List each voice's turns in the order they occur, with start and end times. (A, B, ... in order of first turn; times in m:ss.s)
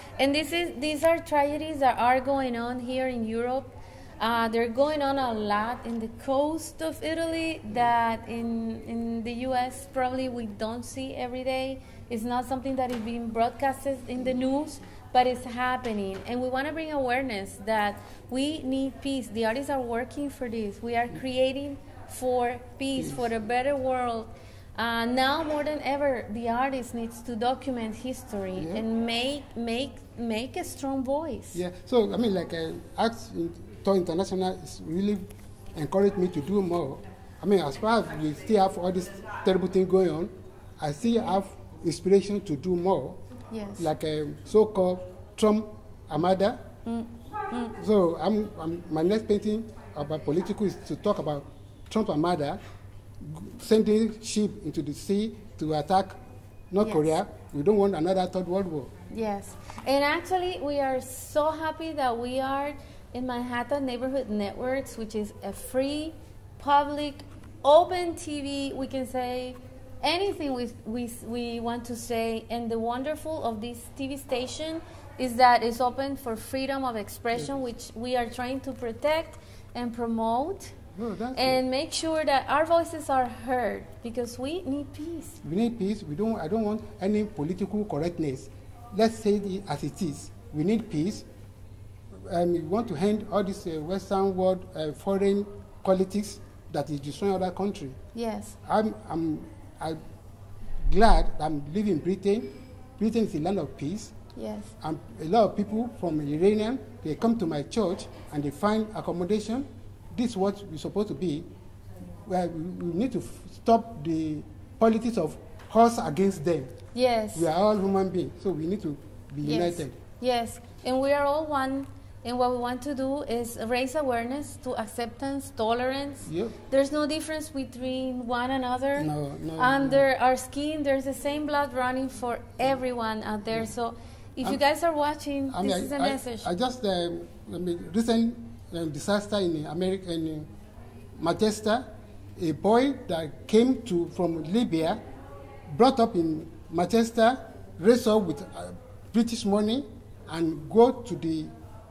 0:00.2-0:31.6 A
0:28.6-0:28.8 B
0:31.5-0:43.2 B
0:43.5-0:43.9 A
0:43.8-0:46.6 B
0:46.8-0:47.8 A
0:47.8-0:52.6 B
0:53.2-0:56.2 B
0:56.7-0:58.9 B
0:56.8-0:57.2 A
0:59.1-1:20.8 A
1:21.0-1:21.6 B
1:21.3-1:25.4 A
1:25.4-1:31.3 B
1:32.2-1:38.0 B
1:38.1-1:38.6 A
1:38.6-1:40.0 B
1:40.9-1:44.1 B
1:44.4-1:44.7 A
1:44.8-1:51.5 B
1:52.2-1:56.7 B
1:56.9-1:57.5 A
1:57.4-2:00.0 B
1:59.4-2:16.5 A
2:06.2-2:06.6 B
2:09.0-2:10.1 B
2:15.5-2:20.5 B
2:21.2-2:25.0 B
2:25.7-2:31.5 B